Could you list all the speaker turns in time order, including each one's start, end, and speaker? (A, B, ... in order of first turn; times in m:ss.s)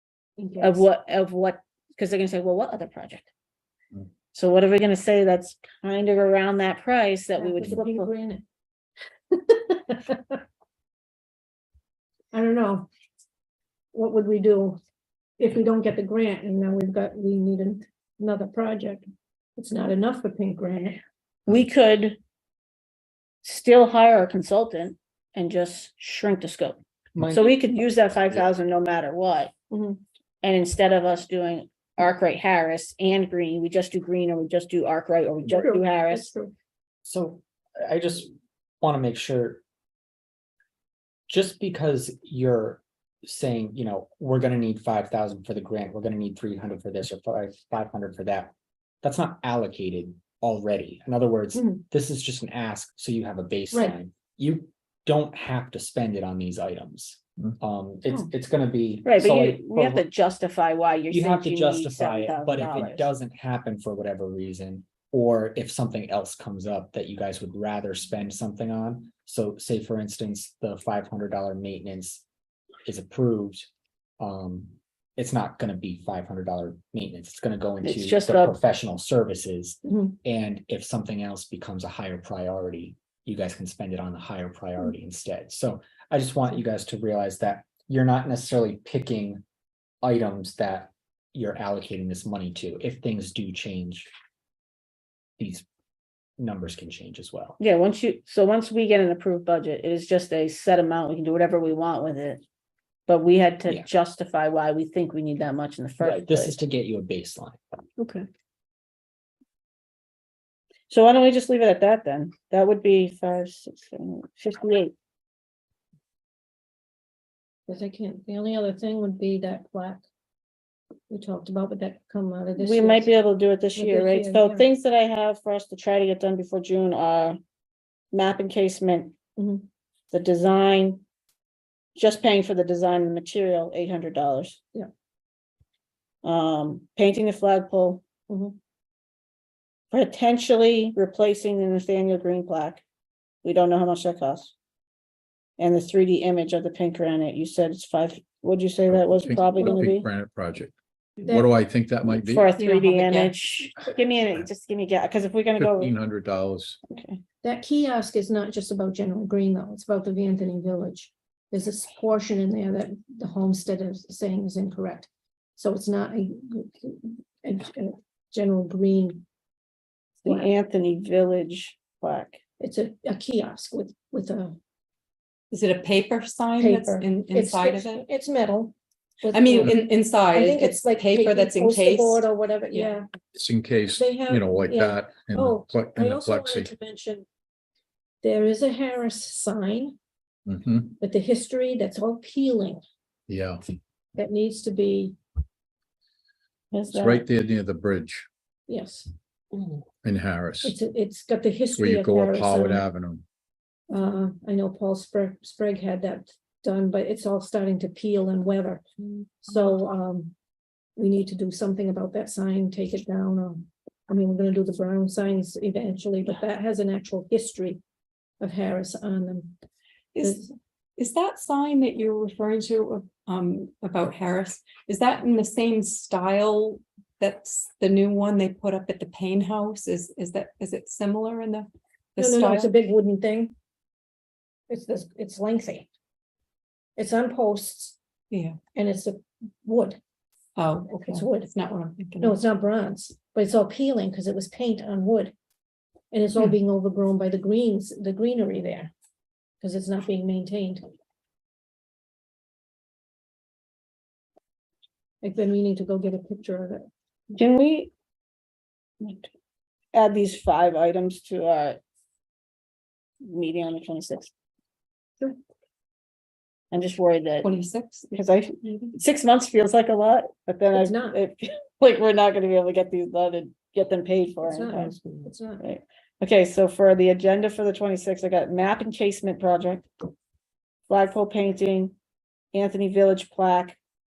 0:00.4-0:00.9 A
0:00.6-0:03.3 B
0:04.3-0:08.1 B
0:07.4-0:08.4 A
0:09.3-0:10.4 A
0:12.3-0:12.9 A
0:13.9-0:14.8 A
0:15.4-0:19.0 A
0:19.6-0:21.0 A
0:21.5-0:22.2 B
0:23.4-0:29.5 B
0:27.2-0:27.6 C
0:29.7-0:30.0 A
0:30.4-0:36.3 B
0:35.5-0:36.5 A
0:37.0-0:39.6 C
0:41.3-1:00.0 C
0:51.6-0:51.8 A
0:59.0-1:03.1 B
1:01.1-1:12.2 C
1:12.8-1:13.7 C
1:14.2-1:29.4 C
1:17.8-1:18.6 B
1:19.9-1:20.2 A
1:30.0-1:34.1 C
1:35.4-1:35.6 C
1:36.4-1:37.6 C
1:37.6-1:42.4 B
1:43.1-1:46.6 B
1:46.0-1:47.6 C
1:48.0-1:48.2 A
1:50.9-1:54.9 B
1:57.7-2:00.0 A
2:01.1-2:03.1 A
2:02.6-2:07.4 B
2:03.8-2:04.7 A
2:08.1-2:09.2 B
2:09.4-2:09.6 A
2:10.1-2:11.0 B
2:12.0-2:14.6 B
2:16.2-2:18.0 B
2:18.3-2:18.6 A
2:19.9-2:22.8 B
2:23.4-2:24.5 B
2:25.6-2:30.1 B
2:28.9-2:30.8 D
2:31.2-2:31.5 A
2:31.3-2:32.5 D
2:32.1-2:35.9 B
2:32.6-2:33.4 E
2:35.6-2:36.8 D
2:36.9-2:37.2 B
2:37.4-2:49.2 A
2:50.2-2:52.4 B
2:50.3-2:50.5 A
2:52.6-2:54.6 A
2:55.5-2:58.0 E
2:56.6-3:03.1 A
2:59.3-3:02.9 E
3:03.4-3:06.7 D
3:03.9-3:07.3 A
3:08.2-3:10.0 A
3:10.5-3:11.0 D
3:11.0-3:12.8 A
3:13.3-3:13.8 D
3:14.2-3:15.2 A
3:16.7-3:17.2 B
3:16.9-3:18.3 D
3:18.7-3:19.1 A
3:20.0-3:20.8 D
3:20.6-3:22.8 A
3:21.8-3:23.2 D
3:23.9-3:28.8 A
3:29.4-3:30.3 A
3:31.0-3:37.8 A
3:38.4-3:39.5 A
3:40.1-3:40.4 E
3:40.2-3:40.5 A
3:41.0-3:52.7 E
3:52.2-3:53.5 A
3:54.7-3:55.9 A
3:57.0-3:58.0 A
3:58.3-3:58.6 E
3:58.7-4:00.0 A
4:00.6-4:02.4 E
4:01.1-4:01.5 A
4:02.2-4:05.3 A
4:06.1-4:08.9 A
4:09.6-4:10.8 A
4:15.2-4:16.9 A
4:17.3-4:17.9 B
4:19.0-4:19.3 B
4:19.9-4:21.8 B
4:23.2-4:24.3 B
4:26.7-4:27.5 B
4:27.4-4:28.2 E
4:28.1-4:34.9 B
4:30.7-4:31.2 A
4:34.4-4:35.6 A
4:35.6-4:39.9 B
4:40.9-4:41.9 B
4:42.5-4:43.8 B